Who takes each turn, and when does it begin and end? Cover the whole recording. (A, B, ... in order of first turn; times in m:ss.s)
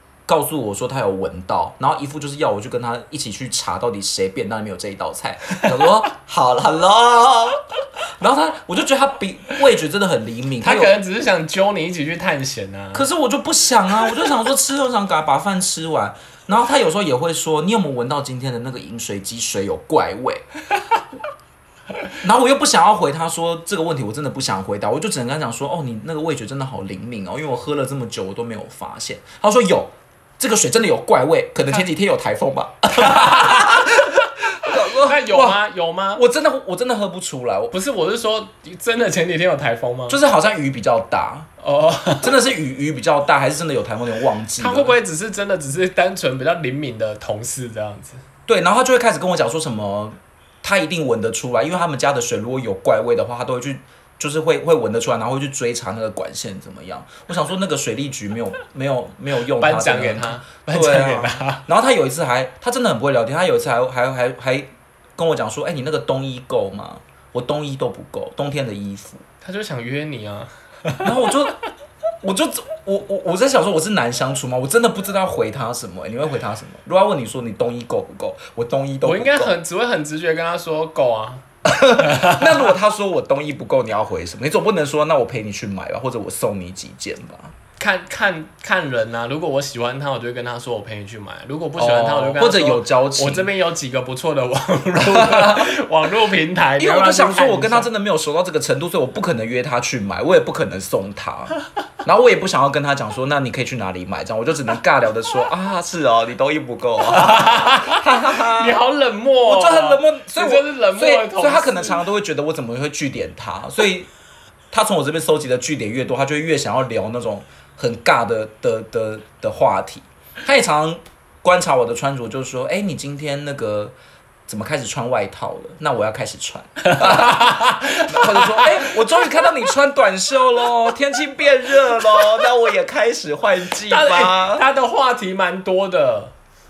0:00.3-0:11.0 A
0:05.5-0:05.8 B
0:10.6-0:13.1 B
0:12.9-0:20.4 A
0:22.2-0:35.6 A
0:32.9-0:36.2 B
0:36.1-0:37.7 A
0:37.7-0:40.2 B
0:40.1-0:41.5 A
0:41.6-0:42.3 B
0:42.2-0:44.9 A
0:44.6-0:48.2 B
0:48.5-1:09.2 A
0:59.5-1:01.6 B
1:09.4-1:11.3 B
1:11.0-1:11.6 A
1:12.2-1:19.6 A
1:19.0-1:21.4 B
1:21.6-1:27.5 A
1:22.0-1:22.7 B
1:27.8-1:37.9 B
1:31.8-1:33.5 A
1:35.0-1:35.7 A
1:36.8-1:48.8 A
1:47.1-1:52.0 B
1:49.4-1:54.1 A
1:54.7-2:03.9 A
2:04.5-2:14.6 A
2:06.8-2:09.0 B
2:13.8-2:16.3 B